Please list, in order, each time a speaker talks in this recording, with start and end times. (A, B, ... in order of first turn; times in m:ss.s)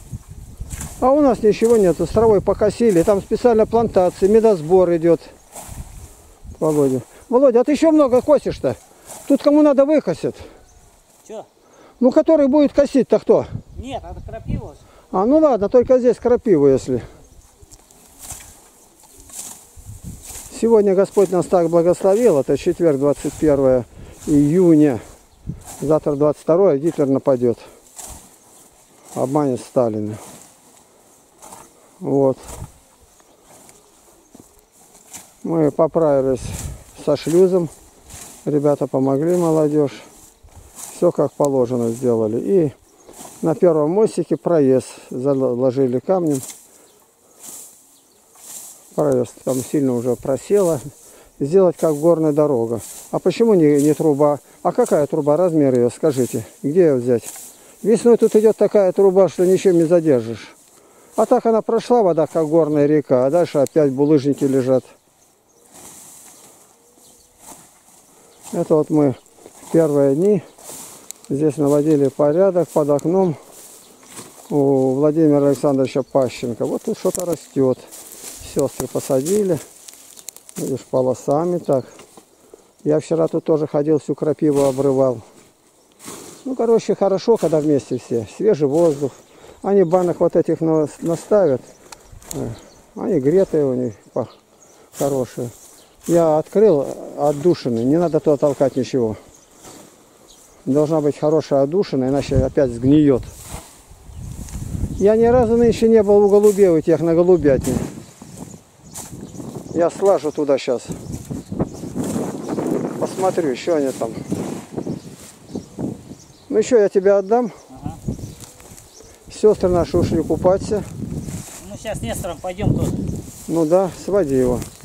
0:01.0-0:05.3 A
0:06.6-0:10.4 A
0:12.0-0:13.5 A
0:13.8-0:14.8 B
0:15.1-0:17.0 A
0:20.5-0:25.0 A
0:25.8-0:27.6 A
0:29.1-0:30.2 A
0:32.0-0:32.4 A
0:35.4-0:37.7 A
0:38.4-0:40.1 A
0:40.9-0:42.7 A
0:43.4-0:46.4 A
0:48.9-0:50.8 A
0:51.4-1:00.5 A
1:01.2-1:04.9 A
1:08.5-1:09.2 A
1:09.7-1:10.4 A
1:11.3-1:13.4 A
1:14.5-1:17.9 A
1:18.4-1:19.6 A
1:20.6-1:21.9 A
1:22.8-1:25.2 A
1:26.4-1:31.7 A
1:32.3-1:34.3 A
1:35.0-1:35.5 A
1:36.1-1:39.2 A
1:40.6-1:43.3 A
1:45.0-1:47.9 A
1:49.7-1:51.0 A
1:53.0-1:54.2 A
1:56.5-1:57.5 A
1:57.7-1:58.0 B
1:59.3-2:00.8 A
2:01.6-2:03.1 B
2:03.5-2:04.7 A